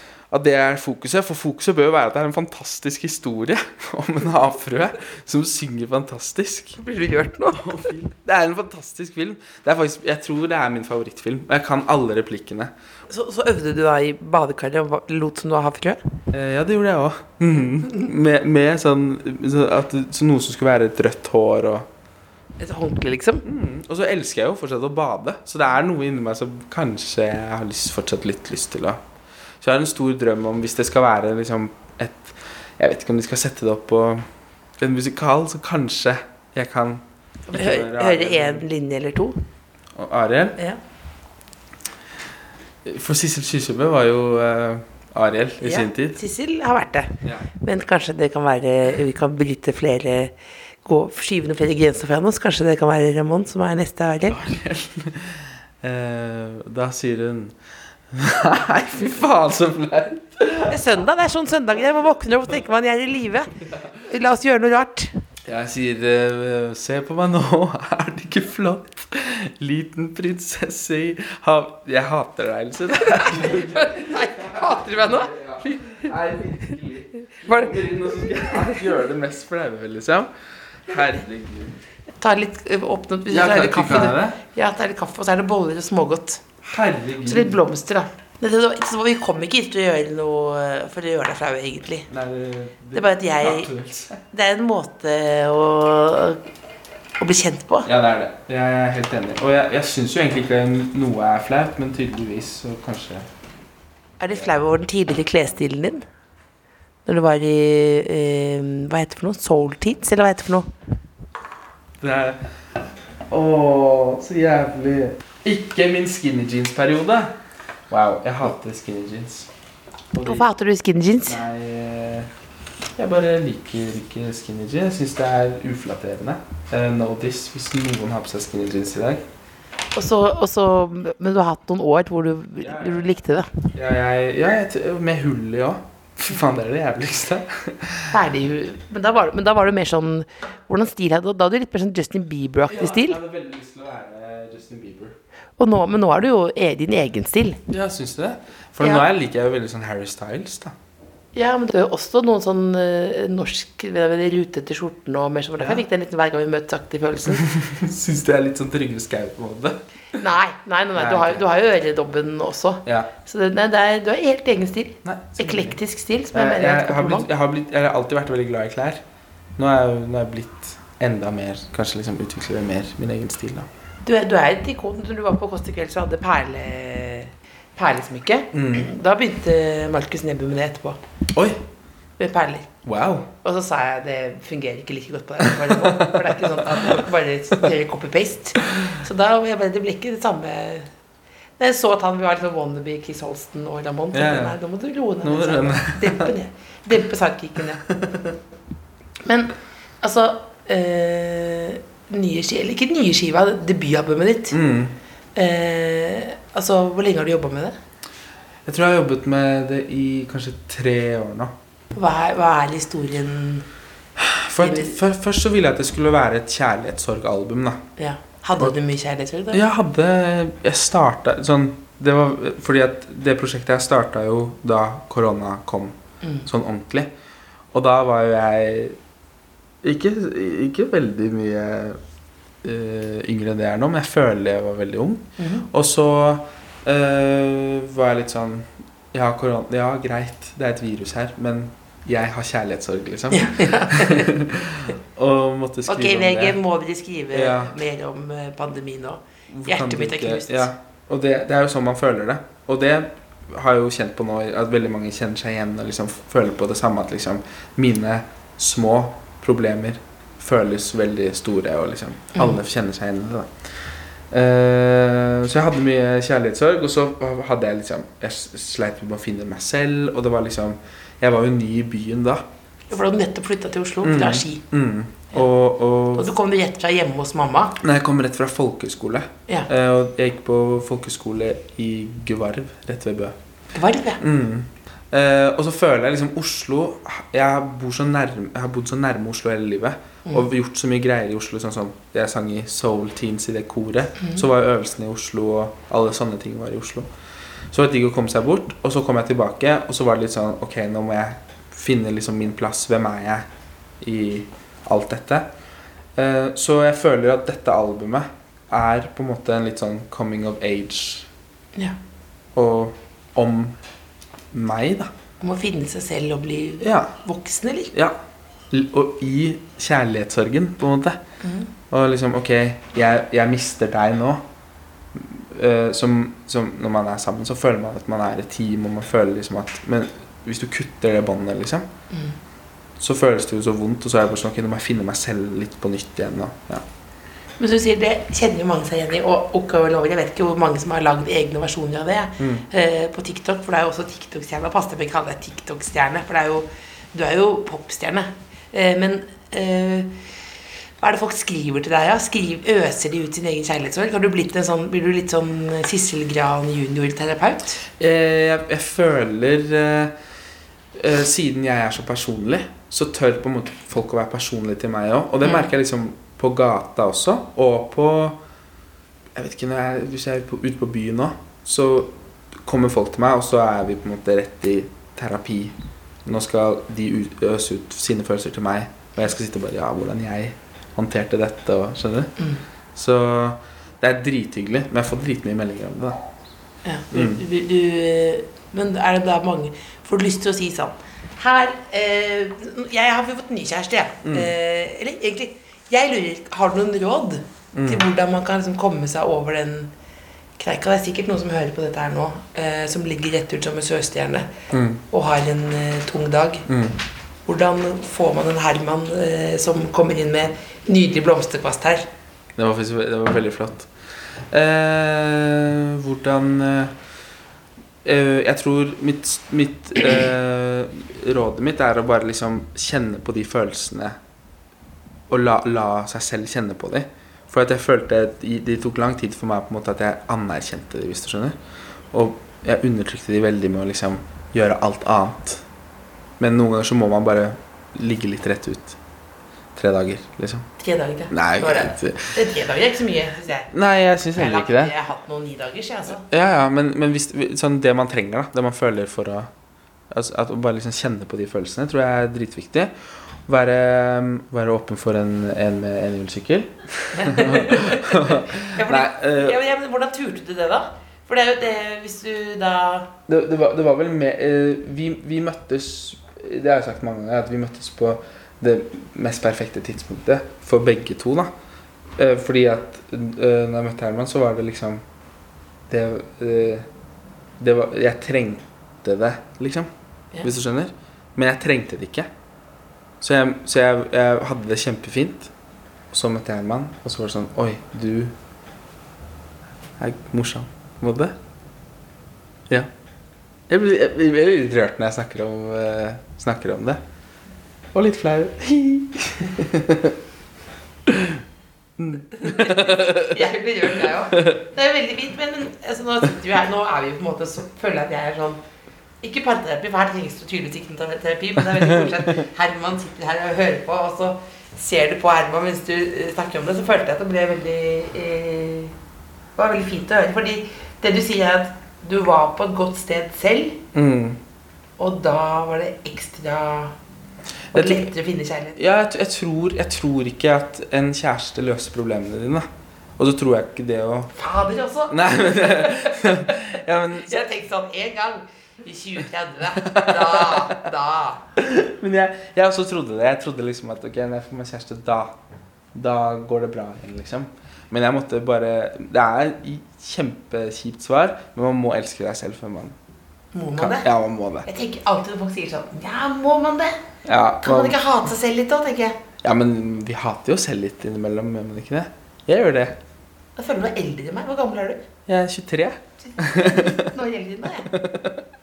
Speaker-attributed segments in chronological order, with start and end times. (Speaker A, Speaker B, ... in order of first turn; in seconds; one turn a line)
Speaker A: 0.3-6.8
Speaker B: 6.8-7.8
Speaker A: 7.5-12.7
Speaker B: 13.1-16.0
Speaker A: 16.3-21.9
Speaker B: 22.6-23.4
Speaker A: 23.4-29.0
Speaker A: 29.6-34.3
Speaker A: 34.8-38.7
Speaker B: 37.5-39.4
Speaker A: 40.0-40.6
Speaker A: 42.8-46.2
Speaker B: 45.6-54.4
Speaker A: 54.3-57.6
Speaker A: 58.1-60.8
Speaker B: 60.7-63.5
Speaker B: 64.1-65.1
Speaker A: 65.5-80.3
Speaker B: 73.0-76.1
Speaker B: 77.4-77.8
Speaker A: 80.9-81.8
Speaker B: 82.2-86.4
Speaker A: 83.3-84.4
Speaker A: 86.6-87.6
Speaker B: 87.2-92.1
Speaker A: 92.1-94.2
Speaker B: 92.9-93.7
Speaker B: 94.3-96.4
Speaker B: 97.2-97.9
Speaker A: 97.8-103.3
Speaker B: 104.2-106.0
Speaker B: 107.1-110.7
Speaker A: 112.0-112.4
Speaker A: 113.3-117.4
Speaker A: 117.9-119.5
Speaker A: 120.1-120.5
Speaker B: 120.2-121.4
Speaker A: 121.2-122.3
Speaker A: 123.0-129.3
Speaker B: 129.9-133.5
Speaker A: 132.6-133.2
Speaker A: 133.7-138.2
Speaker B: 138.1-143.2
Speaker A: 142.6-145.2
Speaker B: 145.6-147.6
Speaker A: 147.7-150.8
Speaker B: 148.8-149.1
Speaker B: 151.3-157.5
Speaker A: 157.4-159.8
Speaker B: 160.2-167.3
Speaker A: 160.9-161.5
Speaker A: 165.0-165.8
Speaker A: 166.3-169.0
Speaker A: 169.6-173.7
Speaker B: 174.0-181.0
Speaker A: 178.5-178.9
Speaker A: 181.3-181.6
Speaker B: 182.2-182.7
Speaker A: 182.8-183.3
Speaker B: 183.4-190.9
Speaker A: 185.4-187.0
Speaker B: 191.6-197.8
Speaker A: 194.1-194.6
Speaker A: 195.2-196.3
Speaker A: 197.9-198.3
Speaker B: 199.2-204.6
Speaker A: 204.5-205.0
Speaker B: 205.3-207.8
Speaker A: 208.7-211.6
Speaker B: 211.9-213.7
Speaker A: 214.2-217.9
Speaker B: 214.6-215.0
Speaker B: 218.0-219.6
Speaker A: 219.5-227.1
Speaker A: 227.7-229.0
Speaker A: 229.8-232.0
Speaker A: 232.6-246.6
Speaker B: 235.4-235.7
Speaker B: 243.3-244.3
Speaker B: 245.9-250.7
Speaker A: 247.3-247.8
Speaker A: 249.5-263.5
Speaker A: 264.3-272.5
Speaker B: 272.9-274.6
Speaker A: 274.0-276.3
Speaker B: 276.1-277.8
Speaker A: 277.8-283.4
Speaker B: 283.7-284.2
Speaker A: 284.2-297.1
Speaker B: 294.2-294.4
Speaker A: 297.7-303.5
Speaker A: 304.0-305.5
Speaker A: 306.2-311.3
Speaker A: 312.6-313.8
Speaker A: 314.5-315.1
Speaker B: 315.4-317.9
Speaker A: 316.8-317.1
Speaker A: 317.9-318.2
Speaker A: 318.7-321.2
Speaker B: 321.4-321.7
Speaker A: 321.9-324.4
Speaker A: 325.1-331.9
Speaker A: 333.0-336.9
Speaker B: 337.6-350.2
Speaker A: 342.4-342.6
Speaker B: 351.0-357.9
Speaker A: 358.0-360.1
Speaker A: 360.9-368.4
Speaker A: 369.4-382.3
Speaker B: 382.4-382.6
Speaker A: 383.0-386.2
Speaker B: 386.8-399.9
Speaker A: 387.1-387.4
Speaker A: 394.2-394.5
Speaker A: 397.7-398.0
Speaker B: 400.6-404.5
Speaker A: 404.7-405.0
Speaker B: 405.1-406.7
Speaker A: 406.7-407.0
Speaker B: 407.5-412.1
Speaker A: 412.6-416.9
Speaker A: 418.0-424.2
Speaker A: 425.3-431.6
Speaker A: 432.1-435.6
Speaker A: 436.4-439.0
Speaker A: 439.8-440.7
Speaker B: 440.8-443.7
Speaker A: 441.3-442.4
Speaker A: 443.7-444.9
Speaker B: 444.4-446.3
Speaker A: 446.1-449.5
Speaker A: 450.1-459.6
Speaker B: 457.1-463.1
Speaker A: 463.3-471.5
Speaker A: 472.2-475.0
Speaker A: 475.9-476.9
Speaker A: 477.6-479.9
Speaker A: 480.4-482.3
Speaker A: 483.2-485.5
Speaker A: 486.1-488.3
Speaker A: 490.0-491.4
Speaker A: 493.7-497.0
Speaker A: 497.9-500.2
Speaker A: 501.1-501.4
Speaker A: 502.0-503.4
Speaker B: 502.3-508.6
Speaker A: 504.0-504.6
Speaker B: 509.2-518.9
Speaker A: 511.9-512.1
Speaker B: 519.6-523.8
Speaker A: 523.9-524.4
Speaker B: 525.0-527.0
Speaker A: 527.7-528.1
Speaker B: 527.7-528.8
Speaker A: 528.8-534.3
Speaker B: 534.4-541.5
Speaker A: 535.1-537.4
Speaker A: 539.8-540.7
Speaker A: 541.6-545.4
Speaker A: 545.9-553.0
Speaker B: 553.5-554.1
Speaker A: 553.8-554.7
Speaker B: 554.6-557.0
Speaker A: 557.2-558.0
Speaker B: 557.6-559.2
Speaker A: 559.4-563.0
Speaker B: 563.6-565.1
Speaker A: 565.3-567.1
Speaker B: 566.3-567.9
Speaker A: 567.8-568.4